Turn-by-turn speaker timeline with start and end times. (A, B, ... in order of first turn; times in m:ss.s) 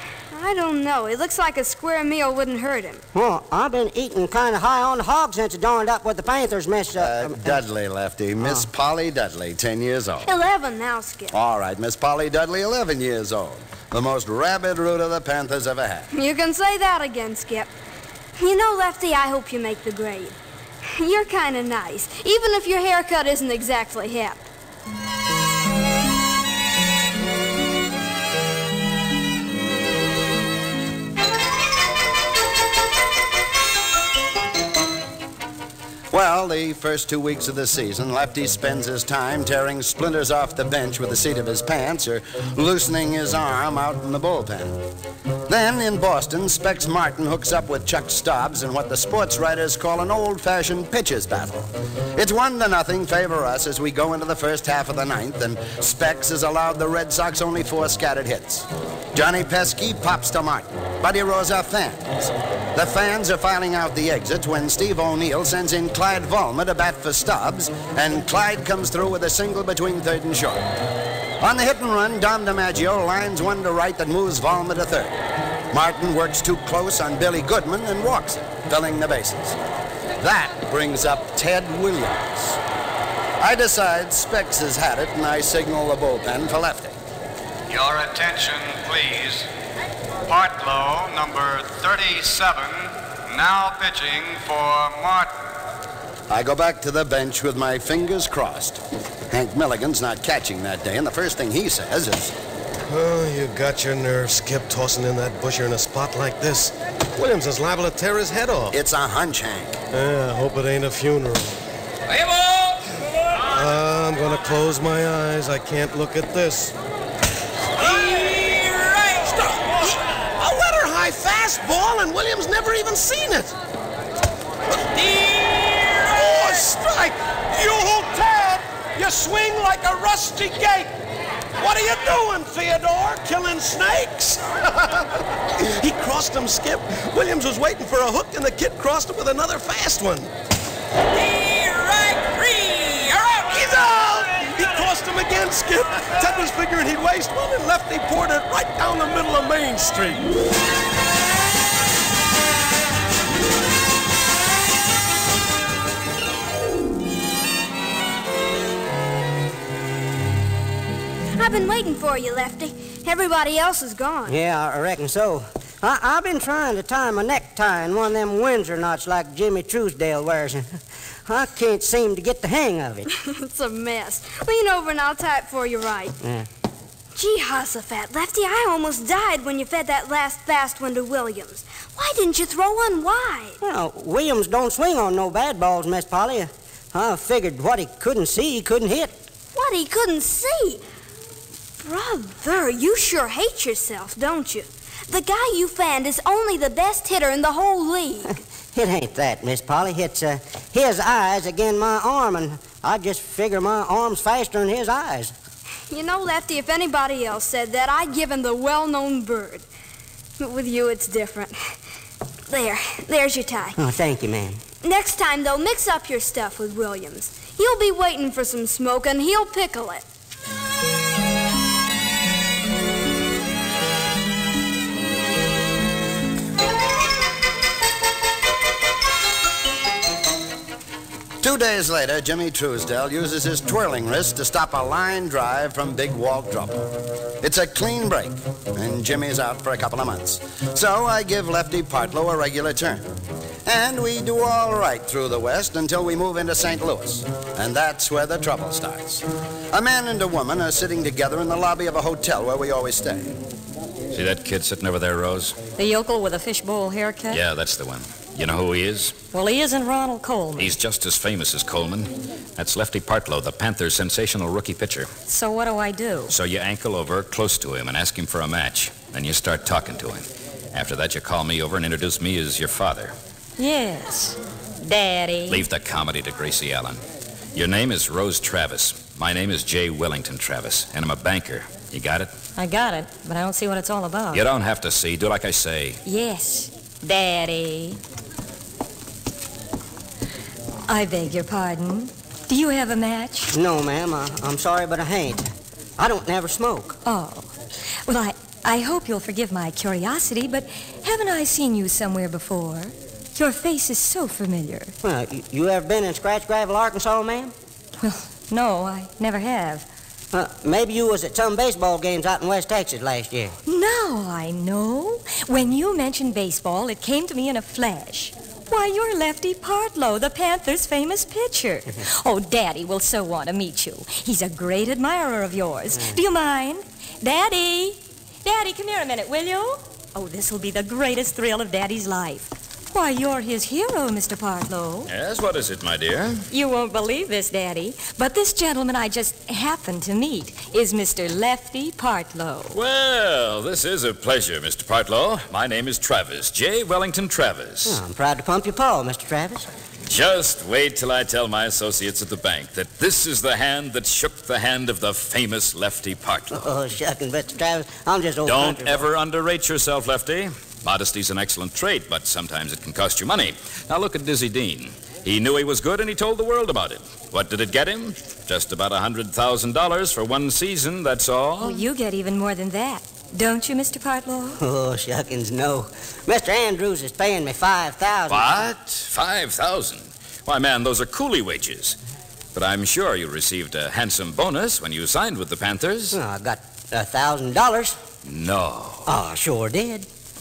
0:00.3-0:03.0 A
0:03.1-0:07.6 B
0:07.0-0:10.3 C
0:10.2-0:11.3 A
0:11.3-0:16.1 C
0:16.1-0:17.7 A
0:18.4-0:24.4 A
0:36.1-0:44.8 C
0:45.5-0:51.6 C
0:52.1-1:10.7 C
1:11.4-1:15.1 C
1:15.7-1:19.6 C
1:20.2-1:22.6 C
1:23.4-1:27.0 C
1:27.7-1:29.5 D
1:30.3-1:35.3 D
1:36.3-1:42.3 C
1:42.9-1:48.8 E
1:48.7-1:49.8 C
1:49.9-1:51.6 E
1:52.1-1:52.8 F
1:53.5-1:56.8 E
1:57.8-2:03.5 E
2:04.7-2:10.9 E
2:11.6-2:20.3 E
2:21.1-2:23.5 F
2:23.5-2:30.3 E
2:41.3-2:44.4 A
2:44.3-2:53.1 B
2:53.1-2:56.1 A
2:56.2-2:56.5 B
2:57.1-3:03.6 A
3:03.6-3:09.2 B
3:09.5-3:10.8 A
3:11.8-3:18.4 A
3:18.7-3:25.3 B
3:25.9-3:29.6 A
3:30.4-3:31.8 A
3:32.5-3:33.8 A
3:33.8-3:34.6 B
3:34.8-3:40.0 A
3:51.4-4:03.1 C
4:03.6-4:13.3 C
4:14.1-4:15.6 G
4:15.8-4:17.4 H
4:17.3-4:19.2 G
4:19.3-4:20.7 H
4:20.6-4:25.1 G
4:25.3-4:26.3 H
4:26.3-4:33.1 G
4:33.6-4:35.7 H
4:35.5-4:37.0 G
4:37.5-4:42.3 G
4:42.6-4:44.4 H
4:44.3-4:46.0 G
4:46.0-4:48.0 H
4:50.9-4:53.5 H
4:53.5-4:57.0 B
4:57.0-4:57.5 H
4:58.0-5:04.9 H
5:05.0-5:07.5 B
5:08.0-5:09.9 H
5:10.3-5:13.5 B
5:13.6-5:35.1 H
5:35.1-5:36.4 G
5:36.5-5:42.8 H
5:42.7-5:48.0 G
5:47.8-5:49.7 B
5:50.1-5:56.7 G
5:56.5-5:59.0 B
5:58.4-6:11.8 G
6:11.6-6:14.6 H
6:14.6-6:18.6 B
6:18.3-6:22.0 G
6:22.5-6:26.2 G
6:26.1-6:28.0 B
6:28.2-6:29.1 G
6:29.0-6:30.1 B